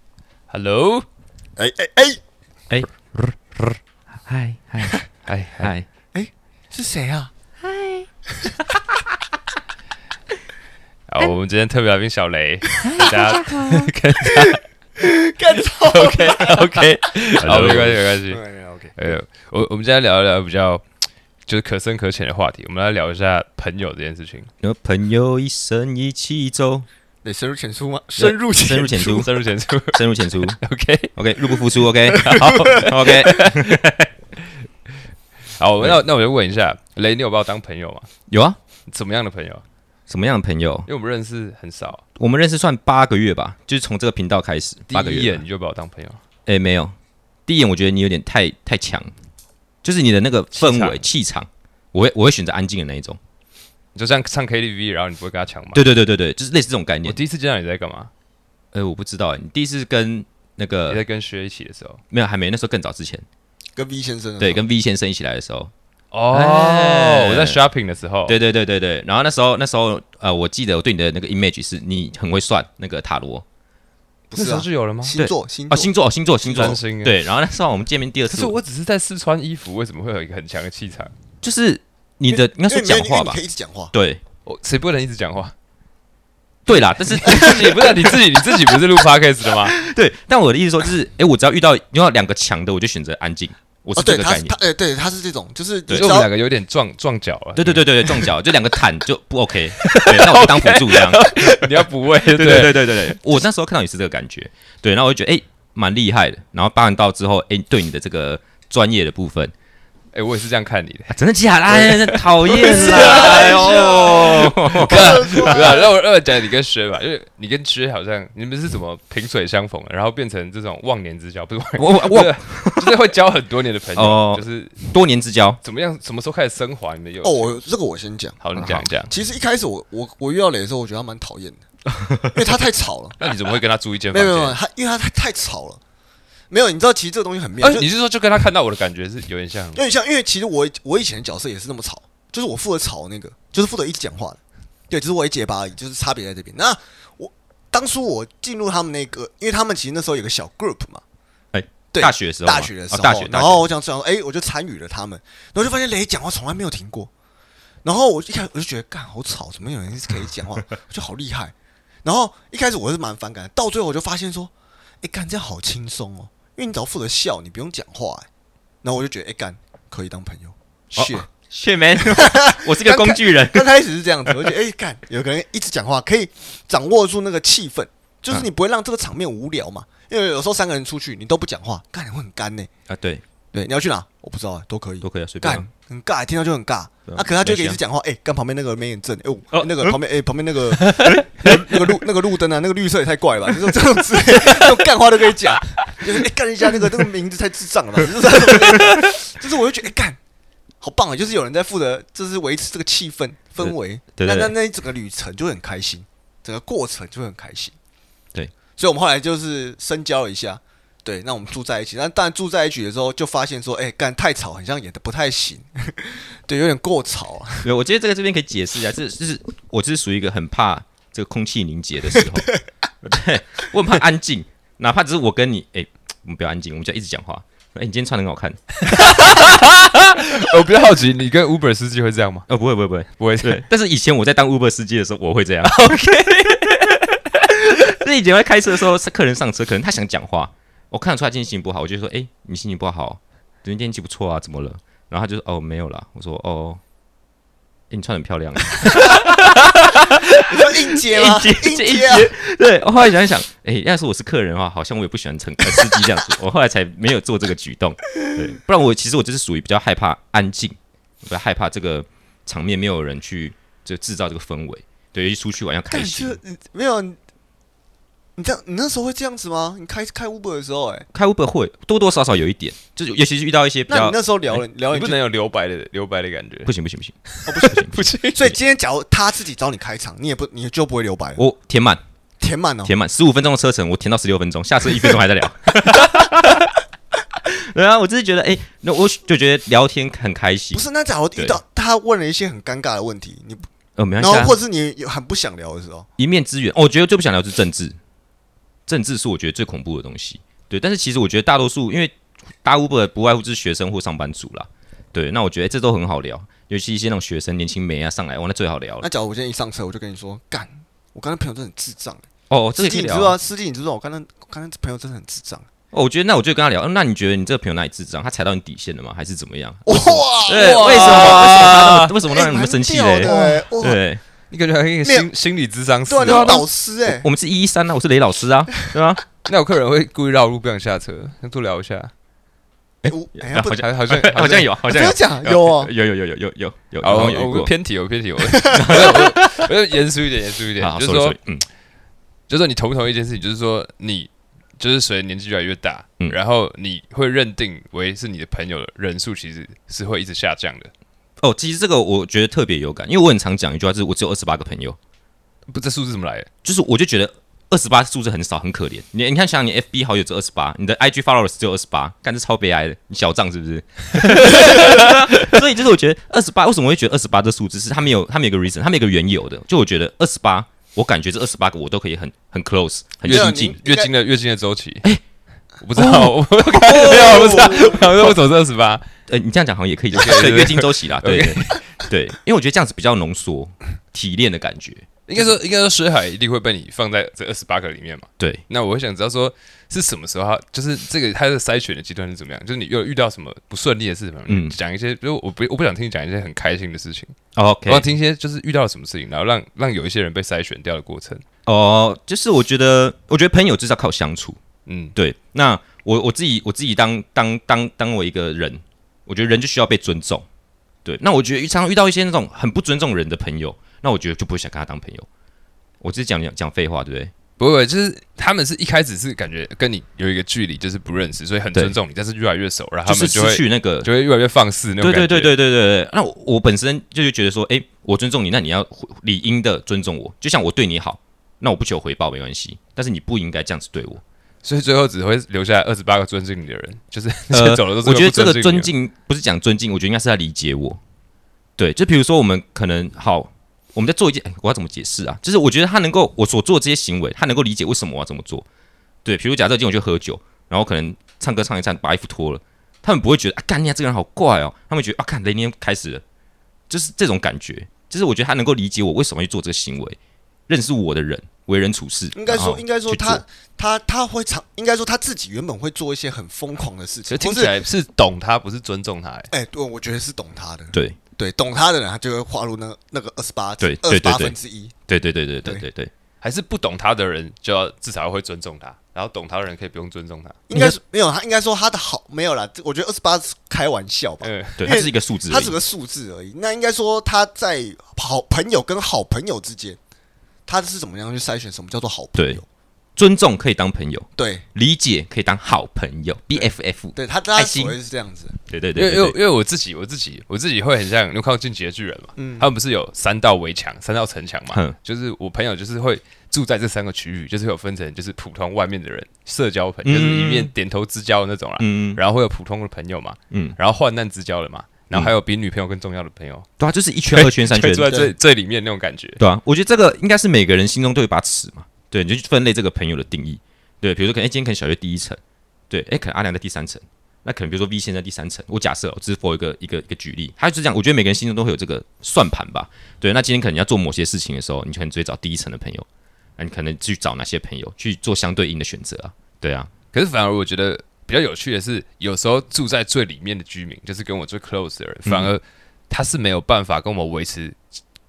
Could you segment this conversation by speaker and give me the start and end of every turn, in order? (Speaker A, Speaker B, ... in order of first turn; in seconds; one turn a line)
Speaker A: 0.5-1.1
Speaker B: 1.6-2.2
Speaker C: 2.7-5.0
Speaker A: 5.2-5.7
Speaker C: 5.6-5.9
Speaker B: 6.1-7.3
Speaker B: 8.4-8.6
Speaker A: 11.1-14.6
Speaker B: 12.8-13.1
Speaker C: 12.9-13.9
Speaker B: 14.3-16.8
Speaker A: 15.8-18.4
Speaker C: 17.4-18.0
Speaker B: 17.6-19.1
Speaker A: 18.9-20.8
Speaker A: 21.5-24.5
Speaker C: 24.6-26.9
Speaker B: 27.2-29.2
Speaker C: 28.2-29.3
Speaker A: 29.0-31.1
Speaker C: 29.9-30.6
Speaker C: 31.1-34.0
Speaker B: 32.1-32.8
Speaker A: 32.2-34.5
Speaker A: 35.5-38.1
Speaker C: 38.3-38.6
Speaker A: 38.9-39.6
Speaker C: 40.1-40.9
Speaker A: 40.9-42.0
Speaker C: 42.2-45.4
Speaker A: 44.9-46.2
Speaker C: 46.5-46.9
Speaker C: 47.5-49.1
Speaker C: 49.8-53.2
Speaker A: 50.5-51.0
Speaker A: 53.9-55.8
Speaker C: 55.7-57.2
Speaker A: 57.0-58.1
Speaker C: 58.7-61.0
Speaker A: 60.9-62.0
Speaker C: 62.1-63.2
Speaker B: 63.8-64.6
Speaker C: 64.4-65.7
Speaker A: 66.1-68.3
Speaker C: 66.3-67.6
Speaker C: 68.3-73.4
Speaker B: 74.3-75.9
Speaker A: 74.3-75.2
Speaker C: 75.2-78.5
Speaker B: 76.5-76.8
Speaker A: 76.5-77.1
Speaker A: 78.3-81.1
Speaker C: 81.4-83.4
Speaker B: 82.3-83.9
Speaker C: 83.9-84.2
Speaker A: 84.4-85.5
Speaker C: 86.7-88.1
Speaker A: 87.2-89.7
Speaker C: 89.7-94.5
Speaker B: 93.9-96.3
Speaker C: 95.9-96.1
Speaker A: 95.9-98.3
Speaker C: 97.5-109.5
Speaker A: 99.8-103.2
Speaker A: 110.1-124.8
Speaker C: 111.1-115.8
Speaker B: 112.6-115.8
Speaker C: 121.8-122.9
Speaker C: 124.0-125.6
Speaker A: 125.6-127.6
Speaker B: 127.2-131.6
Speaker A: 128.4-129.1
Speaker B: 132.2-133.3
Speaker A: 133.2-134.6
Speaker B: 134.1-135.8
Speaker B: 136.5-137.9
Speaker A: 137.6-139.8
Speaker B: 139.8-151.0
Speaker C: 151.5-153.6
Speaker B: 151.9-157.1
Speaker B: 157.8-164.5
Speaker B: 165.0-168.3
Speaker B: 168.8-171.3
Speaker C: 170.9-173.7
Speaker B: 172.0-182.7
Speaker C: 174.3-174.5
Speaker C: 182.9-183.2
Speaker B: 183.5-200.2
Speaker C: 185.0-185.7
Speaker C: 187.1-187.8
Speaker C: 189.5-190.0
Speaker C: 190.7-191.8
Speaker C: 198.5-199.1
Speaker B: 200.8-207.7
Speaker C: 203.6-204.5
Speaker B: 208.8-217.7
Speaker C: 217.6-222.5
Speaker C: 223.0-229.6
Speaker A: 228.8-232.5
Speaker C: 232.5-246.8
Speaker A: 233.2-233.6
Speaker C: 247.9-266.4
Speaker B: 250.4-252.3
Speaker B: 265.9-267.2
Speaker B: 268.4-271.1
Speaker C: 271.1-274.6
Speaker B: 273.9-275.2
Speaker A: 274.9-276.7
Speaker C: 276.6-277.9
Speaker A: 277.3-278.4
Speaker B: 277.4-277.8
Speaker B: 278.3-281.4
Speaker C: 281.4-282.0
Speaker B: 282.4-282.9
Speaker C: 282.8-286.7
Speaker C: 287.4-290.8
Speaker B: 290.7-293.7
Speaker C: 294.0-294.6
Speaker B: 294.2-296.1
Speaker C: 296.2-298.0
Speaker C: 298.9-309.1
Speaker B: 309.0-315.6
Speaker C: 312.5-313.4
Speaker C: 315.9-324.2
Speaker B: 319.9-324.0
Speaker A: 320.5-322.1
Speaker A: 323.2-323.6
Speaker A: 324.5-326.6
Speaker B: 325.0-325.3
Speaker B: 326.1-327.2
Speaker C: 326.2-329.2
Speaker A: 329.4-332.1
Speaker C: 333.0-337.7
Speaker B: 333.0-333.9
Speaker A: 333.6-334.7
Speaker B: 334.8-335.9
Speaker A: 337.0-341.4
Speaker B: 338.5-339.0
Speaker C: 338.7-339.7
Speaker C: 340.8-341.6
Speaker A: 342.5-350.9
Speaker C: 351.4-355.0
Speaker A: 355.7-356.5
Speaker C: 356.6-373.8
Speaker A: 364.2-365.5
Speaker B: 373.2-374.1
Speaker A: 373.2-375.1
Speaker A: 375.8-379.0
Speaker C: 375.9-378.4
Speaker B: 376.9-378.0
Speaker C: 379.3-385.1
Speaker A: 380.1-381.9
Speaker A: 385.3-401.4
Speaker C: 388.4-388.6
Speaker C: 394.5-394.7
Speaker C: 397.5-398.1
Speaker C: 401.6-404.6
Speaker A: 404.9-405.1
Speaker C: 405.1-410.5
Speaker C: 411.0-415.3
Speaker C: 416.0-417.3
Speaker A: 417.6-425.5
Speaker C: 423.1-424.1
Speaker C: 425.0-434.2
Speaker A: 434.6-438.9
Speaker C: 437.5-441.0
Speaker C: 441.8-448.6
Speaker C: 449.2-456.2
Speaker C: 456.9-463.4
Speaker B: 462.3-467.8
Speaker A: 467.3-469.5
Speaker B: 469.5-474.9
Speaker C: 473.8-474.6
Speaker C: 475.1-476.1
Speaker A: 476.4-480.6
Speaker B: 480.7-490.0
Speaker C: 480.7-481.0
Speaker A: 484.4-484.9
Speaker C: 484.8-485.8
Speaker B: 490.7-492.6
Speaker C: 492.4-492.6
Speaker C: 493.1-497.9
Speaker B: 494.4-494.6
Speaker B: 496.5-498.5
Speaker C: 498.7-499.4
Speaker A: 498.9-516.7
Speaker B: 502.4-502.7
Speaker C: 510.1-510.7
Speaker C: 511.8-512.2
Speaker C: 513.5-513.8
Speaker C: 516.8-518.2
Speaker A: 517.3-519.4
Speaker C: 519.4-525.4
Speaker C: 525.9-539.9
Speaker A: 540.1-547.8
Speaker C: 545.2-545.5